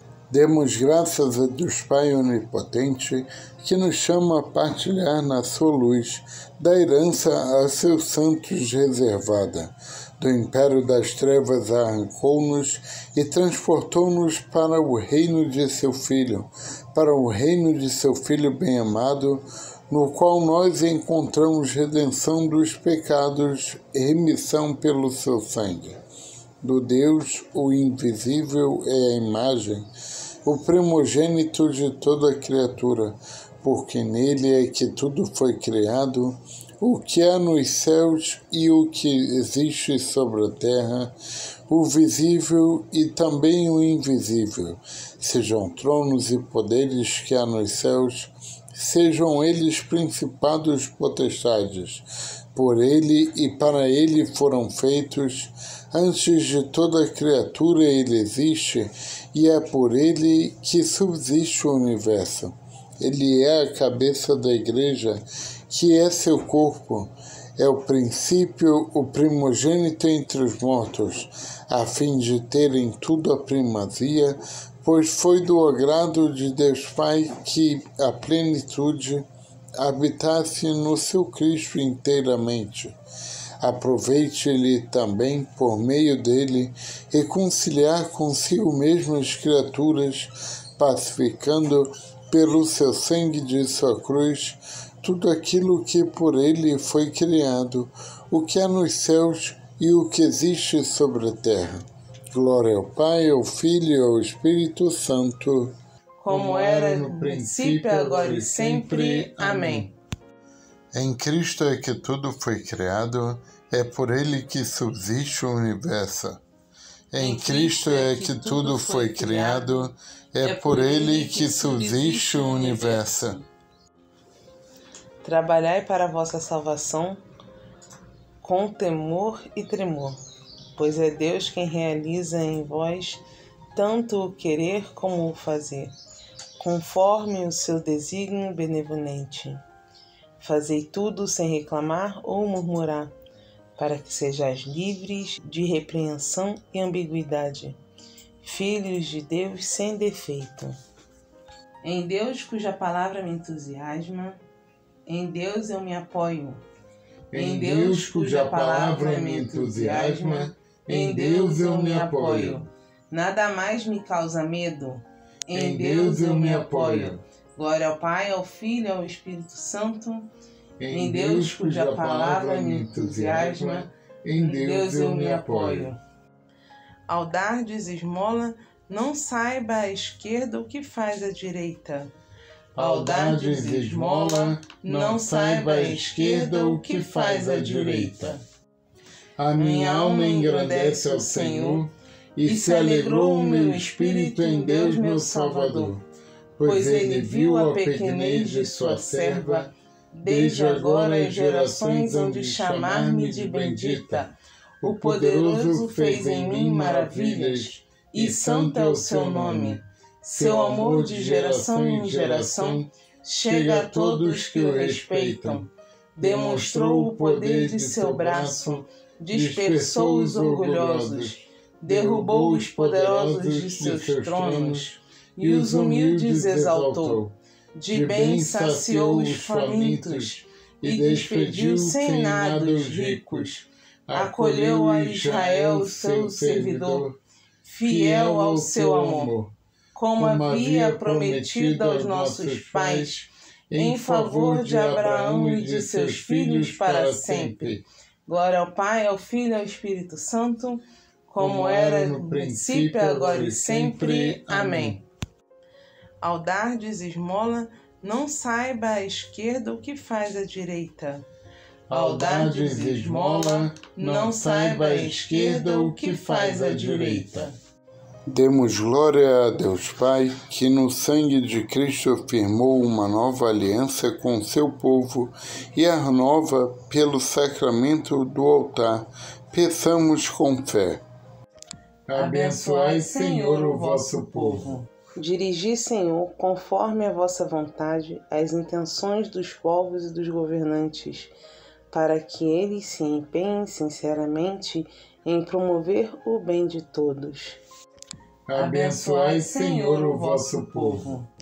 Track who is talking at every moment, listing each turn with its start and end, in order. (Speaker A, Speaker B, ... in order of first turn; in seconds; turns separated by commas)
Speaker A: 0.3-26.0, Speaker A: 26.6-29.9, Speaker A: 30.4-41.1, Speaker A: 41.7-79.2, Speaker A: 79.8-82.9, Speaker A: 83.6-105.7, Speaker B: 106.2-109.9, Speaker A: 106.3-109.9, Speaker A: 110.9-116.4, Speaker A: 117.1-123.4, Speaker B: 117.2-123.4, Speaker B: 125.2-127.2, Speaker B: 128.4-130.2, Speaker B: 130.8-133.2, Speaker B: 133.7-135.9, Speaker B: 136.6-139.6, Speaker B: 140.4-143.2, Speaker B: 143.8-147.8, Speaker B: 148.4-150.8, Speaker B: 151.8-154.4, Speaker B: 155.1-156.6, Speaker A: 157.3-162.6, Speaker B: 157.3-170.3, Speaker A: 165.5-167.2, Speaker A: 170.8-175.9, Speaker B: 170.9-176.0, Speaker B: 177.1-182.1, Speaker A: 182.7-188.4, Speaker B: 182.8-188.4, Speaker A: 189.4-196.0, Speaker B: 189.6-191.9, Speaker B: 192.4-195.9, Speaker A: 196.6-199.7, Speaker B: 196.6-237.1, Speaker A: 200.2-204.3, Speaker A: 204.8-209.8, Speaker A: 210.3-212.9, Speaker A: 213.4-215.6, Speaker A: 216.2-227.3, Speaker A: 227.9-233.5, Speaker A: 234.1-237.2, Speaker B: 237.6-239.3, Speaker A: 237.8-239.5, Speaker B: 239.9-255.0, Speaker A: 240.2-247.8, Speaker A: 251.4-255.0, Speaker B: 256.2-261.3, Speaker A: 261.9-267.5, Speaker B: 261.9-267.5, Speaker A: 268.3-281.0, Speaker A: 282.1-284.8, Speaker B: 282.1-291.3, Speaker B: 291.9-297.6, Speaker A: 298.5-301.1, Speaker B: 298.5-301.3